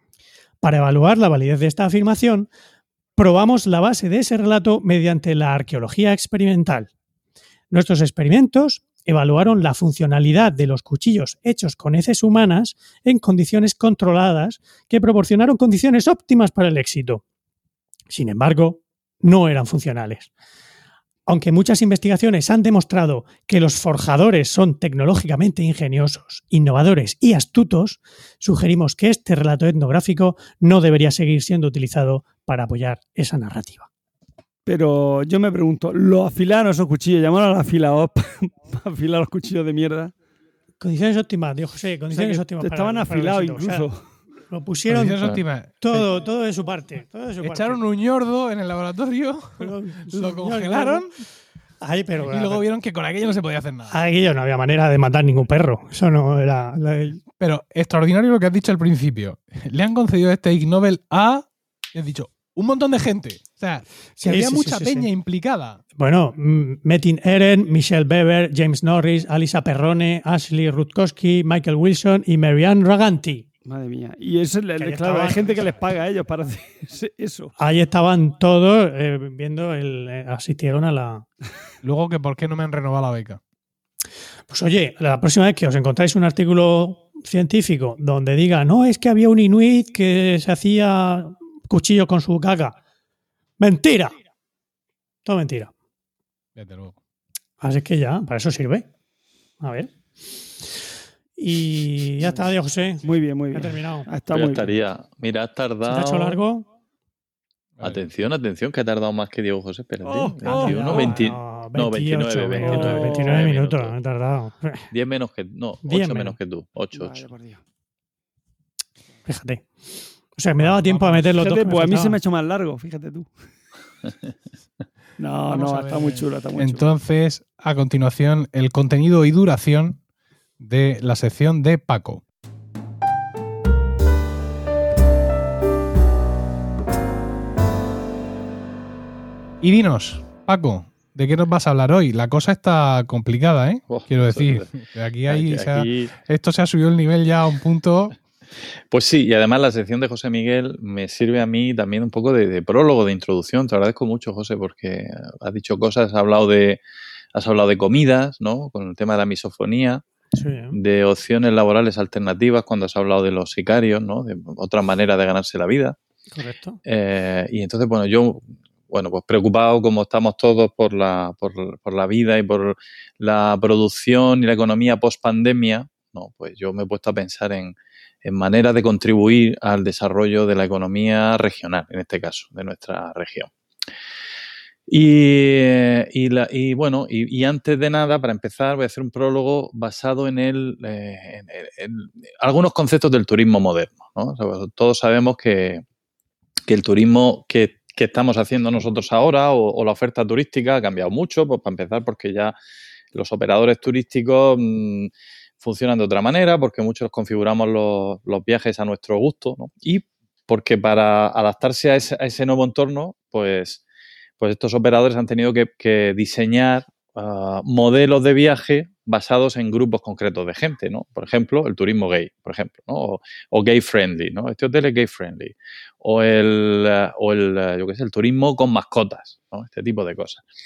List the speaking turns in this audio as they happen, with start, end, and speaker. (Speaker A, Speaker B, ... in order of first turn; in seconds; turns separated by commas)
Speaker A: 0.6-2.5, Speaker A: 3.1-6.9, Speaker A: 7.7-17.2, Speaker A: 18.1-20.3, Speaker A: 21.3-33.9, Speaker B: 34.6-40.1, Speaker A: 40.8-43.9, Speaker B: 42.1-44.1, Speaker A: 44.4-45.2, Speaker C: 44.9-46.1, Speaker A: 45.8-47.8, Speaker C: 47.4-51.2, Speaker A: 49.6-51.0, Speaker A: 51.8-52.6, Speaker C: 52.2-54.0, Speaker A: 53.9-57.2, Speaker C: 57.4-65.8, Speaker A: 64.2-65.1, Speaker A: 66.0-73.4, Speaker B: 73.7-77.5, Speaker A: 74.8-75.6, Speaker A: 77.6-81.3, Speaker C: 81.8-83.4, Speaker A: 84.5-92.8, Speaker A: 93.6-94.2, Speaker A: 95.2-95.7, Speaker C: 96.6-97.0, Speaker A: 97.6-98.9, Speaker A: 99.6-99.9, Speaker A: 101.4-103.0, Speaker B: 103.0-104.7, Speaker A: 103.5-104.1, Speaker D: 104.3-106.4, Speaker A: 105.8-106.7, Speaker C: 107.8-108.0, Speaker D: 107.8-113.9, Speaker B: 110.0-111.2, Speaker A: 110.4-114.9, Speaker B: 112.6-113.5, Speaker D: 114.9-117.3, Speaker A: 115.8-116.4, Speaker B: 116.9-117.6, Speaker A: 119.3-119.7, Speaker A: 120.3-122.2, Speaker C: 120.6-121.4, Speaker B: 121.4-123.3, Speaker B: 125.2-126.9, Speaker C: 125.5-130.0, Speaker C: 130.6-132.2, Speaker C: 139.6-148.2, Speaker D: 143.9-144.7, Speaker D: 145.3-146.1, Speaker D: 148.9-156.8, Speaker D: 157.3-160.0, Speaker A: 160.4-160.8, Speaker D: 160.7-165.9, Speaker A: 166.3-166.8, Speaker D: 166.9-183.5, Speaker D: 184.9-195.8, Speaker D: 196.7-202.6, Speaker D: 203.1-213.8, Speaker D: 214.4-230.4